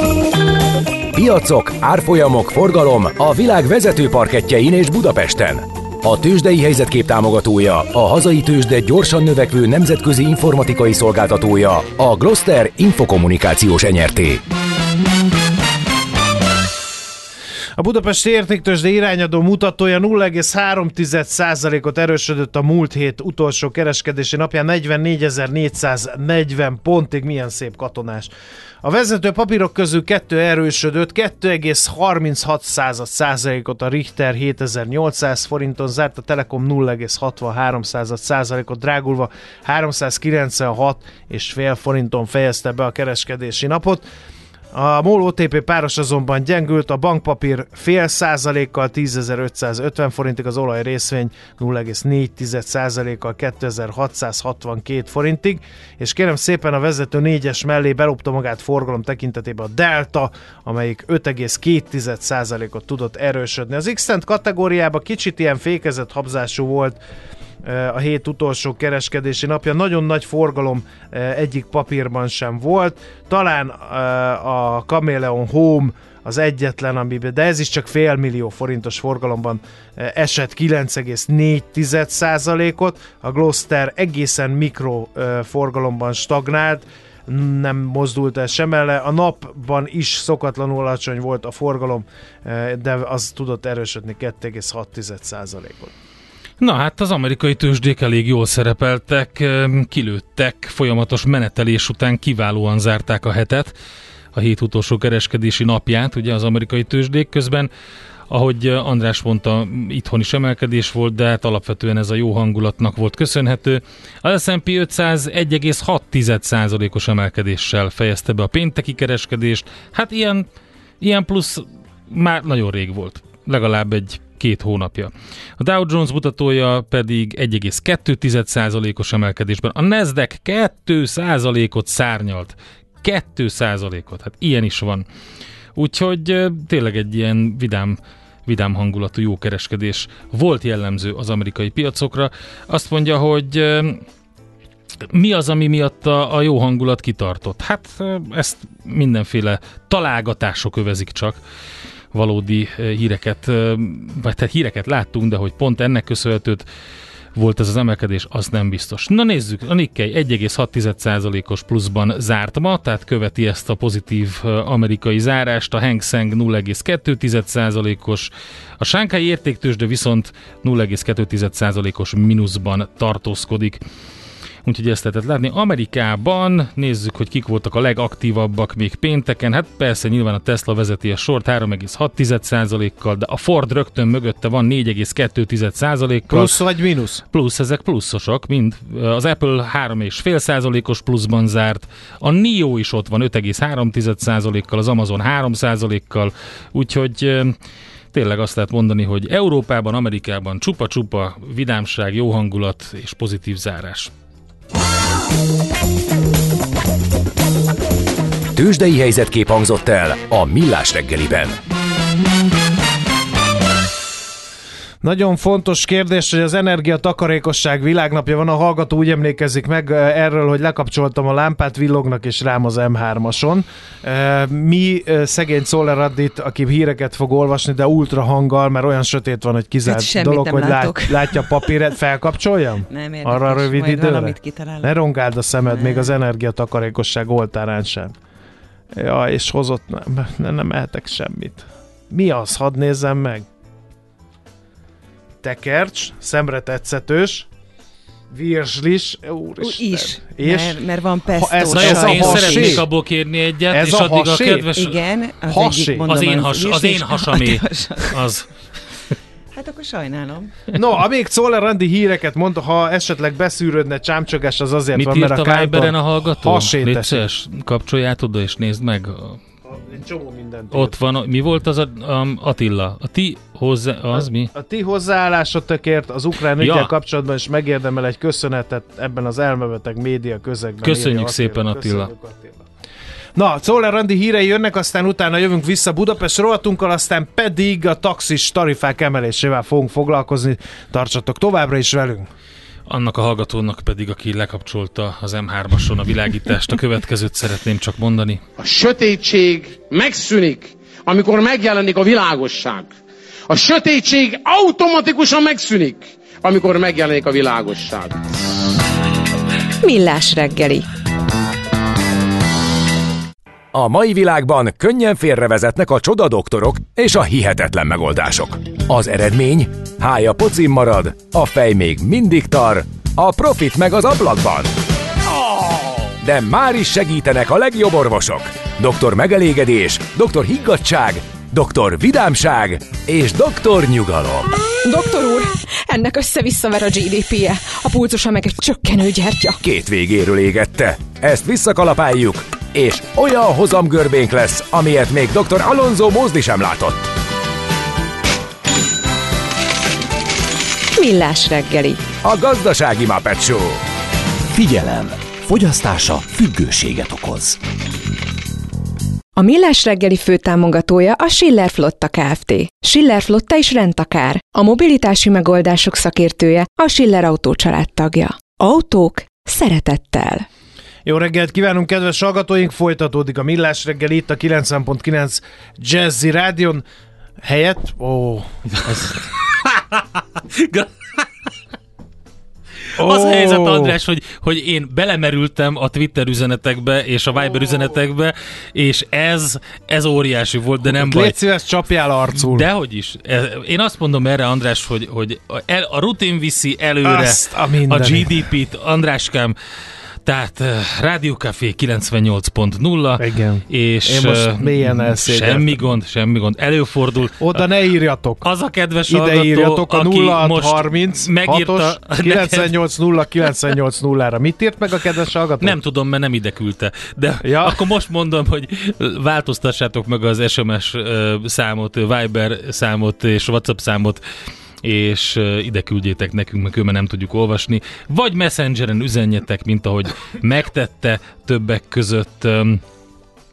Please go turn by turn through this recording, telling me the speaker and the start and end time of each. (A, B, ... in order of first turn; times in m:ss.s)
0:01.1-0:14.4 A
0:17.8-0:28.3 B
0:28.8-0:44.1 B
0:44.7-1:07.0 B
1:07.6-1:35.9 B
1:36.6-1:43.7 C
1:44.3-1:47.7 C
1:48.3-2:00.5 C
2:01.0-2:15.0 C
2:15.7-2:24.0 C
2:25.1-2:31.4 C
2:32.1-2:36.6 C
2:37.4-2:53.8 C
2:54.6-3:06.6 C
3:06.3-3:07.2 B
3:07.3-3:17.6 C
3:18.1-3:24.1 C
3:28.5-3:31.5 A
3:35.0-3:58.2 B
3:49.8-3:51.9 D
3:52.9-3:55.0 D
3:55.6-3:56.2 D
3:58.9-4:03.5 B
4:05.4-4:07.5 B
4:08.3-4:12.9 B
4:09.6-4:12.8 D
4:11.7-4:15.0 C
4:13.7-4:14.7 B
4:14.7-4:18.2 D
4:15.4-4:16.1 B
4:16.0-4:18.5 C
4:19.5-4:20.5 D
4:20.7-4:27.2 B
4:24.9-4:29.4 C
4:29.7-4:30.9 B
4:30.7-4:34.5 C
4:34.1-4:42.7 B
4:36.6-4:36.9 C
4:40.8-4:42.1 C
4:43.3-4:52.3 B
4:52.9-4:58.4 C
4:58.6-5:03.0 E
5:03.5-5:08.2 E
5:09.8-5:10.9 F
5:13.7-5:24.7 A
5:26.2-5:34.5 A
5:34.8-5:39.6 F
5:39.6-5:47.0 A
5:51.0-5:52.0 F
5:52.2-5:53.8 A
5:54.5-5:57.6 G
5:59.4-6:10.4 F
6:11.0-6:16.8 B
6:17.4-6:19.2 B
6:18.9-6:21.2 C
6:22.9-6:31.4 C
6:23.0-6:24.0 B
6:30.8-6:32.7 B
6:32.3-6:39.5 C
6:37.0-6:38.5 B
6:40.2-6:47.4 C
6:43.2-6:45.8 B
6:47.4-6:48.4 B
6:48.4-6:52.7 C
6:49.0-6:55.8 B
6:55.6-7:04.2 C
6:57.4-6:57.9 B
7:04.8-7:12.8 C